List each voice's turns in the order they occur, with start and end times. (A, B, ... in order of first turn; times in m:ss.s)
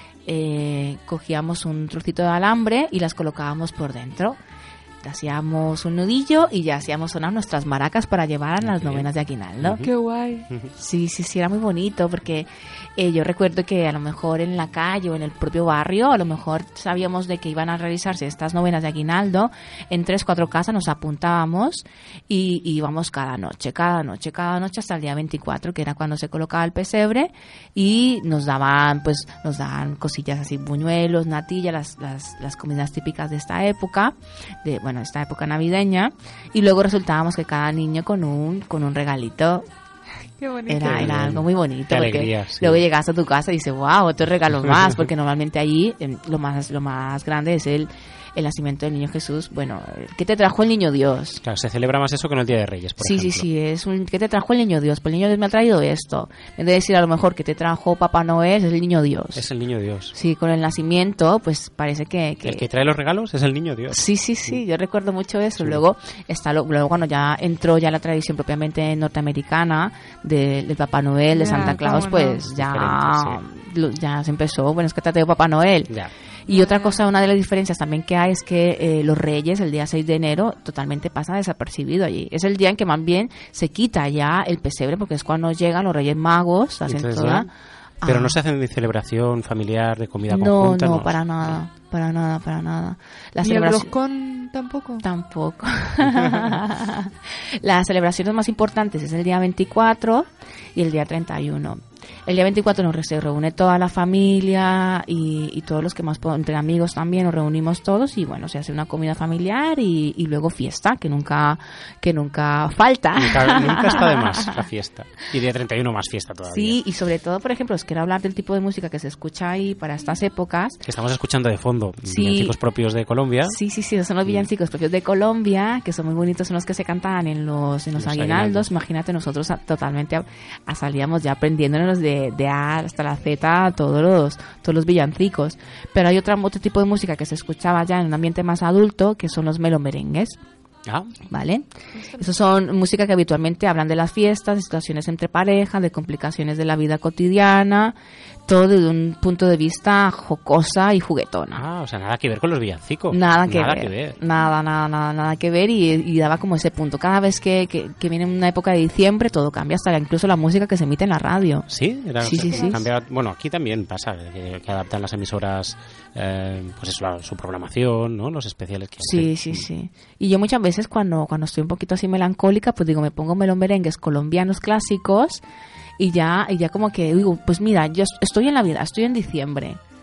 0:00.3-0:04.4 A
0:05.0-0:09.9 A
0:08.6-0:09.9 B
0:09.9-0:10.5 C
0:10.8-0:39.7 A
0:40.4-0:41.0 C
0:40.7-0:51.4 A
0:40.9-0:42.8 B
0:51.4-0:53.5 B
0:53.0-0:59.5 A
0:59.4-1:00.1 B
1:00.1-1:02.6 A
1:02.4-1:04.6 B
1:03.9-1:15.9 A
1:05.6-1:05.8 B
1:11.3-1:12.4 C
1:12.4-1:13.4 B
1:16.4-1:27.5 A
1:16.5-1:16.9 C
1:26.9-1:27.5 B
1:28.0-1:28.4 A
1:28.0-1:31.6 B
1:30.3-1:34.0 A
1:33.4-1:35.0 C
1:35.0-1:54.6 A
1:53.2-1:56.8 B
1:56.5-2:00.8 A
2:00.8-2:03.6 B
2:02.1-2:02.5 A
2:03.5-2:20.4 A
2:08.0-2:08.7 B
2:20.9-2:21.2 B
2:21.3-2:28.0 A
2:28.5-2:31.6 A
2:31.6-2:34.2 B
2:33.1-2:41.7 A
2:41.7-2:49.7 B
2:42.2-2:42.9 A
2:49.0-2:55.4 A
2:56.0-2:59.8 A